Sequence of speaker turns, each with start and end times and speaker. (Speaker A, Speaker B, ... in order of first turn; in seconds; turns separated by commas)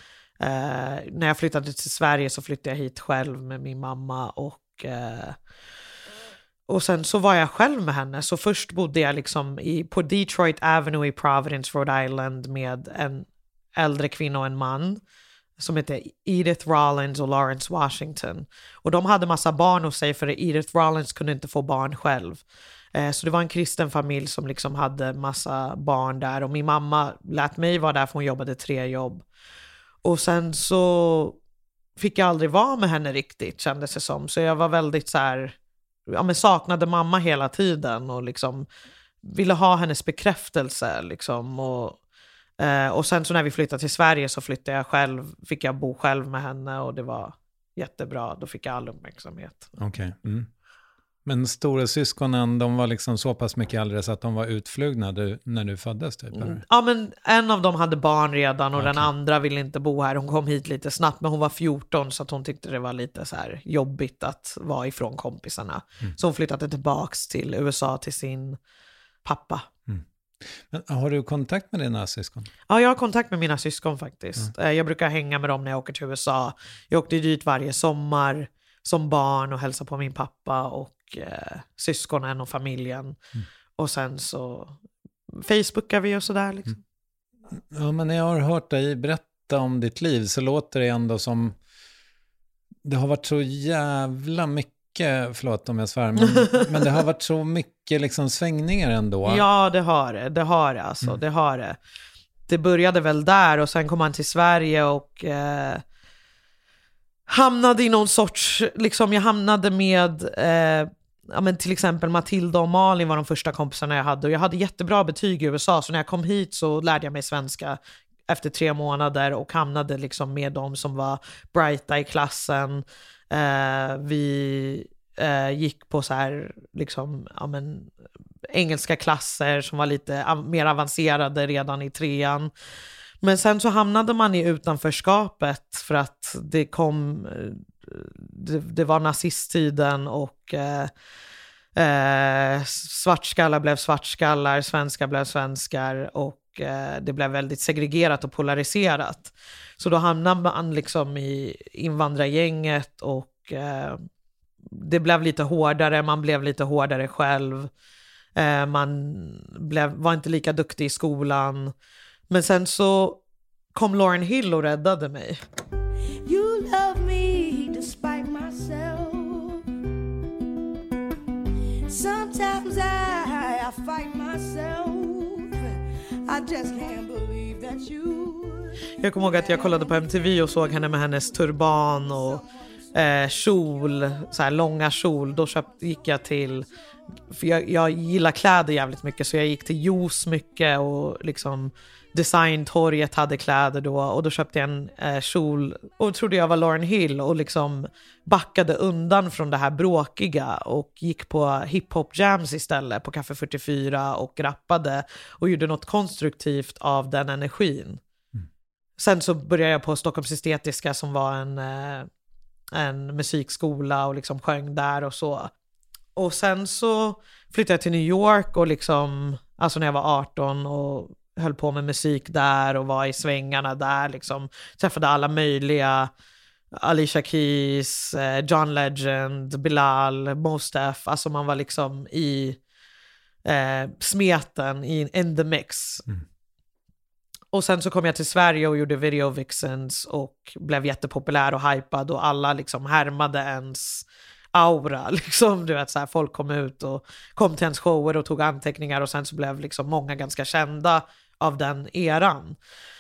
Speaker A: 0.4-5.4, Speaker A: 6.7-15.0, Speaker A: 15.6-22.4, Speaker A: 22.9-29.2, Speaker A: 30.0-31.4, Speaker A: 32.0-35.5, Speaker A: 36.1-38.7, Speaker A: 39.2-42.0, Speaker A: 42.6-49.7, Speaker B: 49.8-50.5, Speaker B: 51.3-56.6, Speaker A: 56.4-68.6, Speaker B: 58.8-59.1, Speaker A: 69.2-69.7, Speaker B: 69.9-72.5, Speaker A: 72.7-83.2, Speaker A: 83.8-84.8, Speaker A: 85.3-86.8, Speaker B: 87.6-91.6, Speaker B: 92.8-99.4, Speaker A: 96.3-96.9, Speaker A: 99.3-101.8, Speaker A: 102.5-105.8, Speaker A: 107.3-127.9, Speaker A: 128.5-132.5, Speaker A: 133.2-140.9, Speaker A: 141.8-154.0, Speaker A: 154.7-157.7, Speaker A: 158.4-161.7, Speaker A: 162.3-163.2, Speaker A: 163.7-165.4, Speaker C: 166.2-169.6, Speaker C: 171.9-179.9, Speaker A: 179.0-182.3, Speaker C: 182.1-182.4, Speaker A: 182.9-186.7, Speaker A: 187.3-208.0, Speaker A: 209.0-212.1, Speaker A: 212.7-215.5, Speaker A: 216.2-226.1, Speaker A: 226.7-232.6, Speaker A: 233.4-236.1, Speaker A: 237.5-252.6